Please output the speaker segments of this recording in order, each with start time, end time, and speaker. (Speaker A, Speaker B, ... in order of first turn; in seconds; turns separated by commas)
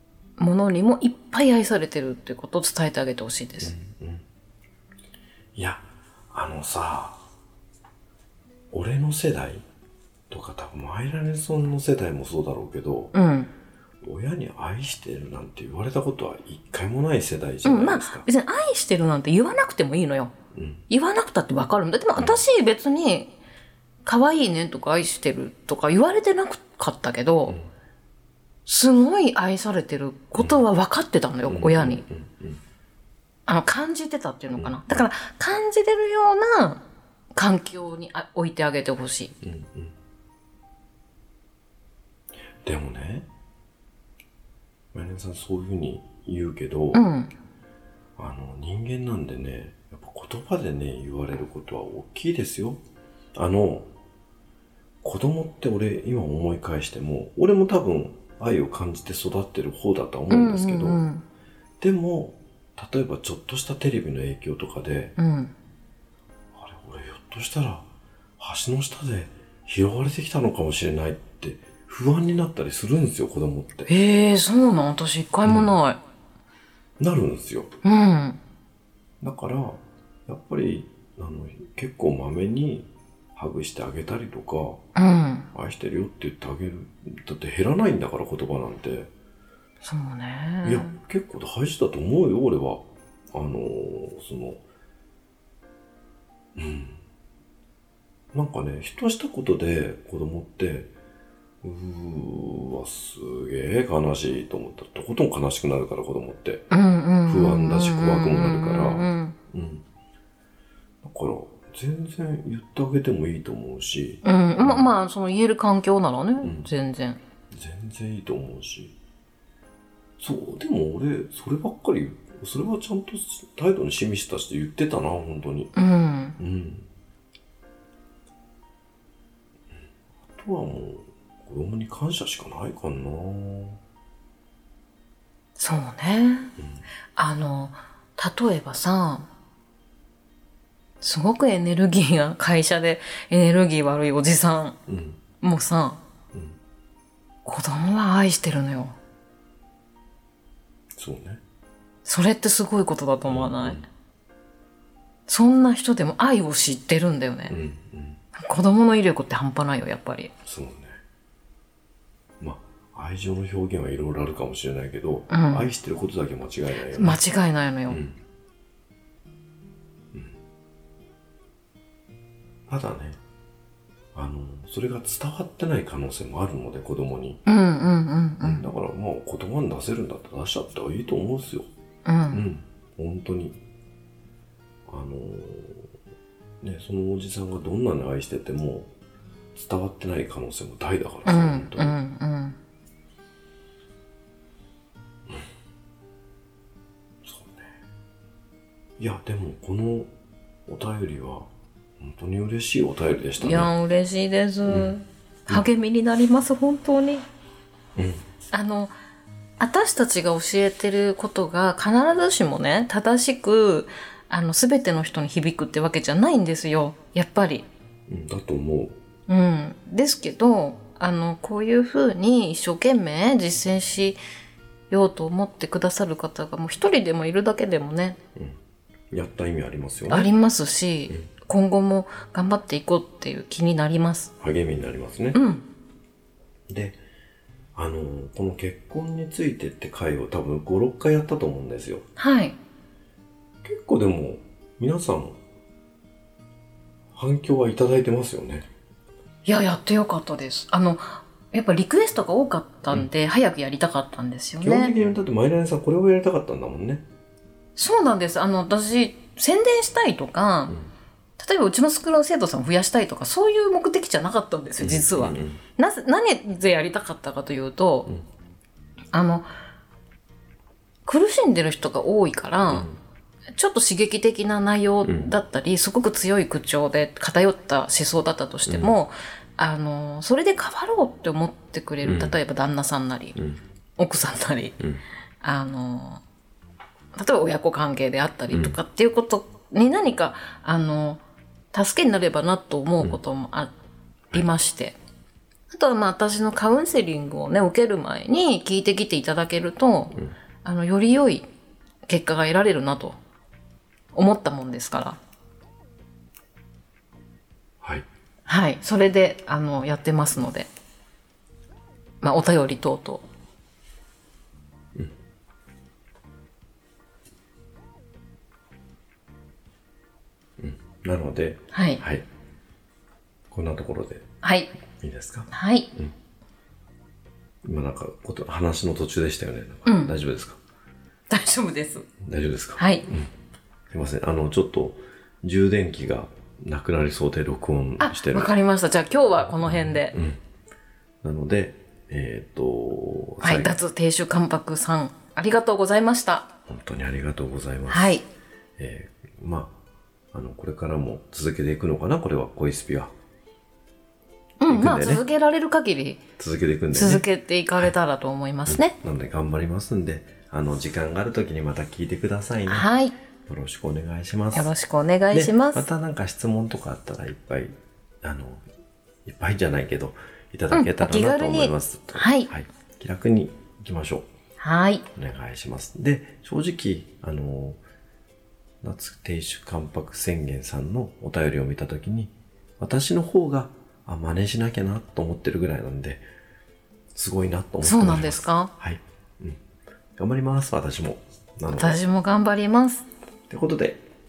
Speaker A: 0.4-3.7, Speaker B: 3.6-4.2, Speaker B: 5.5-7.2, Speaker B: 8.7-9.7, Speaker B: 10.3-13.2, Speaker A: 13.1-13.5, Speaker B: 14.0-18.3, Speaker A: 17.6-20.3, Speaker B: 20.5-20.8, Speaker A: 20.9-23.3, Speaker B: 22.2-22.4, Speaker A: 24.1-27.6, Speaker A: 28.7-32.0, Speaker B: 31.5-32.6, Speaker A: 33.5-36.8, Speaker B: 34.6-35.0, Speaker A: 37.4-39.4, Speaker B: 39.4-40.0, Speaker B: 42.6-43.3, Speaker B: 44.9-47.0, Speaker A: 46.9-47.3, Speaker B: 48.2-52.8, Speaker B: 53.4-53.9, Speaker B: 55.0-61.0, Speaker A: 60.3-61.2, Speaker B: 61.8-65.2, Speaker A: 65.2-65.5, Speaker B: 66.5-67.9, Speaker B: 68.4-73.9, Speaker A: 73.9-76.0, Speaker B: 75.5-75.8, Speaker B: 77.0-77.7, Speaker A: 77.8-78.4, Speaker B: 79.2-84.8, Speaker A: 85.0-85.5, Speaker B: 85.5-89.1, Speaker A: 89.8-91.0, Speaker B: 90.6-92.8, Speaker B: 93.3-94.6, Speaker B: 96.6-97.0, Speaker B: 98.3-100.9, Speaker B: 101.6-106.7, Speaker A: 106.7-109.4, Speaker B: 107.3-109.8, Speaker B: 111.0-114.9, Speaker A: 114.2-117.2, Speaker B: 116.4-116.7, Speaker B: 117.5-119.0, Speaker B: 120.2-125.7, Speaker A: 125.8-126.4, Speaker B: 126.4-126.9, Speaker B: 130.3-133.8, Speaker A: 135.6-136.5, Speaker B: 136.6-136.8, Speaker A: 137.2-139.3, Speaker A: 141.0-144.8, Speaker B: 144.9-145.2, Speaker A: 145.4-146.0, Speaker B: 146.3-146.6, Speaker A: 147.4-149.0, Speaker B: 151.0-151.4, Speaker A: 152.1-153.8, Speaker B: 153.3-153.8, Speaker A: 155.3-157.5, Speaker B: 157.5-158.2, Speaker A: 158.3-160.3, Speaker B: 160.4-161.0, Speaker B: 162.4-167.2, Speaker A: 165.3-165.7, Speaker A: 166.9-168.0, Speaker B: 167.9-168.2, Speaker B: 172.7-173.2, Speaker B: 174.2-177.4, Speaker A: 177.5-178.7, Speaker B: 178.4-181.7, Speaker A: 182.1-182.4, Speaker B: 182.3-183.6, Speaker B: 184.9-185.9, Speaker B: 186.6-188.9, Speaker B: 189.6-192.0, Speaker A: 191.3-192.6, Speaker B: 197.2-197.7, Speaker B: 199.0-200.1, Speaker B: 200.7-201.5, Speaker B: 202.0-203.7, Speaker A: 203.4-207.3, Speaker B: 204.6-205.0, Speaker B: 208.0-208.2, Speaker A: 208.5-208.9, Speaker A: 209.6-217.7, Speaker B: 218.1-219.0, Speaker A: 219.3-224.2, Speaker A: 224.9-228.2, Speaker B: 229.1-230.3, Speaker A: 230.1-234.3, Speaker B: 234.4-235.4, Speaker A: 235.3-235.7, Speaker B: 236.7-237.0, Speaker B: 237.8-242.1, Speaker A: 242.2-242.6, Speaker B: 243.6-245.4, Speaker B: 247.1-248.7, Speaker A: 249.4-254.9, Speaker B: 254.6-257.1, Speaker A: 257.8-260.8, Speaker A: 261.4-268.1, Speaker B: 264.8-265.6, Speaker A: 269.1-269.5, Speaker A: 271.1-272.9, Speaker B: 272.7-273.0, Speaker A: 273.5-283.4, Speaker B: 278.7-278.9, Speaker B: 282.1-282.4, Speaker B: 283.4-283.6, Speaker A: 284.0-284.8, Speaker A: 285.4-286.2, Speaker A: 287.1-291.2, Speaker B: 288.5-288.8, Speaker A: 291.7-293.7, Speaker A: 294.3-295.0, Speaker A: 295.7-301.5, Speaker A: 302.1-303.2, Speaker A: 304.1-305.2, Speaker A: 308.5-310.7, Speaker A: 312.2-313.2, Speaker B: 320.6-322.2, Speaker A: 321.7-322.0, Speaker B: 323.5-324.3, Speaker A: 324.4-324.7, Speaker B: 325.0-326.1, Speaker A: 325.5-325.9, Speaker B: 327.6-330.6, Speaker A: 329.9-330.1, Speaker A: 331.3-332.1, Speaker B: 332.2-333.3, Speaker A: 332.8-333.1, Speaker B: 333.9-338.5, Speaker A: 338.0-340.1, Speaker B: 339.7-340.4, Speaker B: 341.2-343.8, Speaker A: 343.4-346.5, Speaker B: 346.7-348.2, Speaker A: 347.9-348.3, Speaker B: 348.8-349.7, Speaker B: 350.3-353.1, Speaker A: 354.6-356.2, Speaker B: 354.7-355.2, Speaker B: 356.4-357.2, Speaker A: 356.9-358.9, Speaker B: 358.7-362.9, Speaker A: 362.7-363.2, Speaker B: 363.5-364.7, Speaker A: 364.6-365.9, Speaker B: 365.3-368.6, Speaker B: 369.2-374.3, Speaker A: 370.7-372.5, Speaker A: 374.6-375.1, Speaker B: 375.1-377.8, Speaker B: 378.8-386.2, Speaker B: 387.1-389.6, Speaker A: 387.8-388.7, Speaker B: 390.2-392.0, Speaker A: 391.7-393.1, Speaker B: 393.5-394.0